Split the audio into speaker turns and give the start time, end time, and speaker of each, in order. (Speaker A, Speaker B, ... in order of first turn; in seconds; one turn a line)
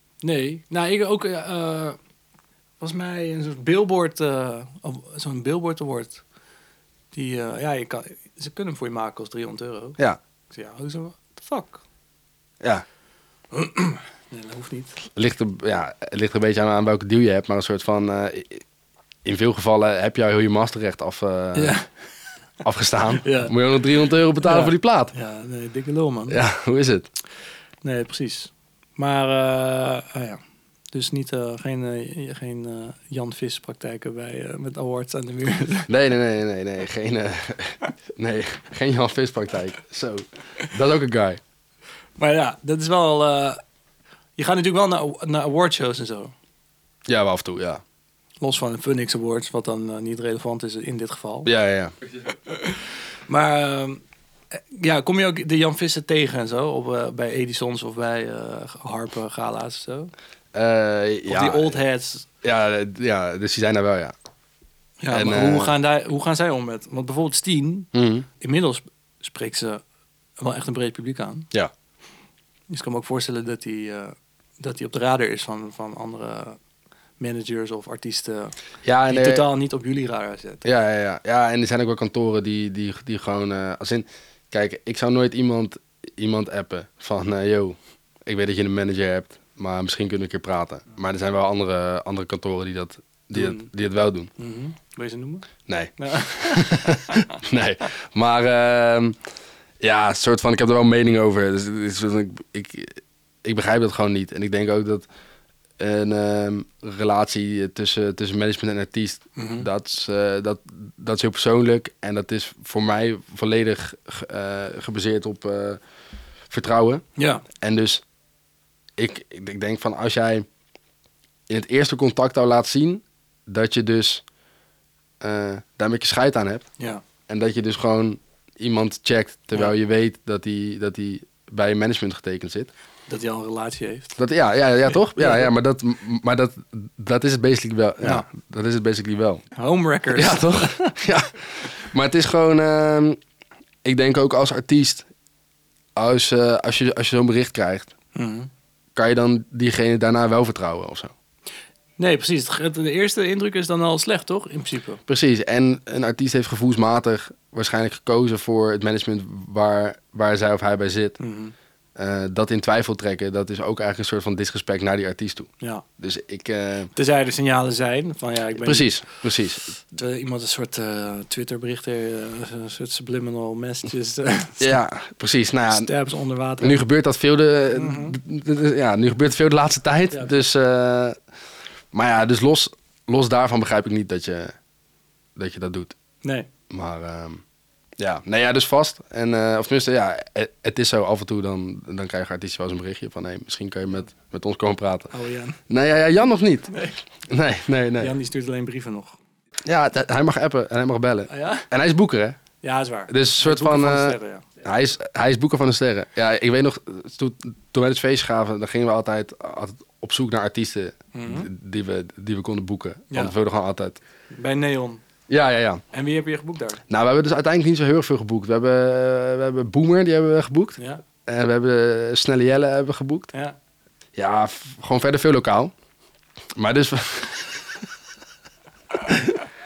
Speaker A: 0.2-2.0
Speaker A: 2.8-6.2
Speaker A: 7.1-10.0
Speaker A: 10.5-11.8
Speaker A: 13.5-15.0
Speaker B: 15.1-18.6
Speaker B: 19.2-21.8
Speaker A: 21.6-21.9
Speaker B: 22.6-25.1
Speaker A: 23.2-23.5
Speaker A: 24.4-26.4
Speaker B: 26.3-27.1
Speaker A: 27.8-30.4
Speaker A: 30.9-35.9
Speaker B: 35.9-41.4
Speaker A: 42.2-43.6
Speaker A: 44.4-46.3
Speaker B: 47.1-47.8
Speaker A: 48.4-51.5
Speaker B: 51.5-51.9
Speaker A: 52.5-60.1
Speaker B: 60.5-61.8
Speaker A: 61.3-62.3
Speaker B: 62.4-64.2
Speaker A: 65.0-69.8
Speaker B: 65.1-65.7
Speaker B: 67.9-68.3
Speaker A: 70.4-71.5
Speaker A: 72.7-76.6
Speaker A: 77.2-80.6
Speaker B: 78.8-79.5
Speaker B: 80.6-94.3
Speaker A: 93.3-93.7
Speaker A: 94.4-97.4
Speaker B: 95.7-99.2
Speaker B: 99.8-105.1
Speaker B: 105.8-115.8
Speaker A: 109.4-109.7
Speaker B: 116.5-117.0
Speaker A: 117.2-117.5
Speaker B: 117.6-118.0
Speaker B: 119.0-120.5
Speaker B: 121.5-124.2
Speaker B: 125.2-126.7
Speaker B: 127.3-132.7
Speaker A: 133.1-134.2
Speaker B: 134.2-139.4
Speaker A: 135.2-135.5
Speaker A: 139.6-141.0
Speaker B: 140.1-143.2
Speaker B: 143.8-145.1
Speaker B: 146.0-147.9
Speaker A: 148.2-148.5
Speaker B: 149.0-151.1
Speaker A: 152.0-155.0
Speaker B: 155.1-161.2
Speaker A: 161.2-161.5
Speaker B: 162.0-166.9
Speaker A: 166.9-168.9
Speaker B: 168.6-169.7
Speaker A: 169.8-174.8
Speaker B: 174.6-175.9
Speaker A: 175.7-176.8
Speaker B: 176.6-181.2
Speaker A: 177.7-178.2
Speaker B: 181.9-184.6
Speaker B: 185.4-185.9
Speaker A: 186.2-186.5
Speaker B: 186.7-187.4
Speaker B: 188.0-195.1
Speaker A: 195.1-195.6
Speaker B: 195.7-196.7
Speaker A: 196.7-197.0
Speaker B: 197.3-198.1
Speaker A: 198.0-199.2
Speaker B: 199.7-202.4
Speaker A: 201.3-201.7
Speaker A: 202.6-204.4
Speaker B: 203.1-214.0
Speaker A: 211.1-211.5
Speaker A: 214.3-215.0
Speaker B: 215.3-215.8
Speaker A: 215.9-216.8
Speaker B: 216.9-223.3
Speaker B: 224.2-225.7
Speaker B: 226.6-227.8
Speaker B: 229.1-229.4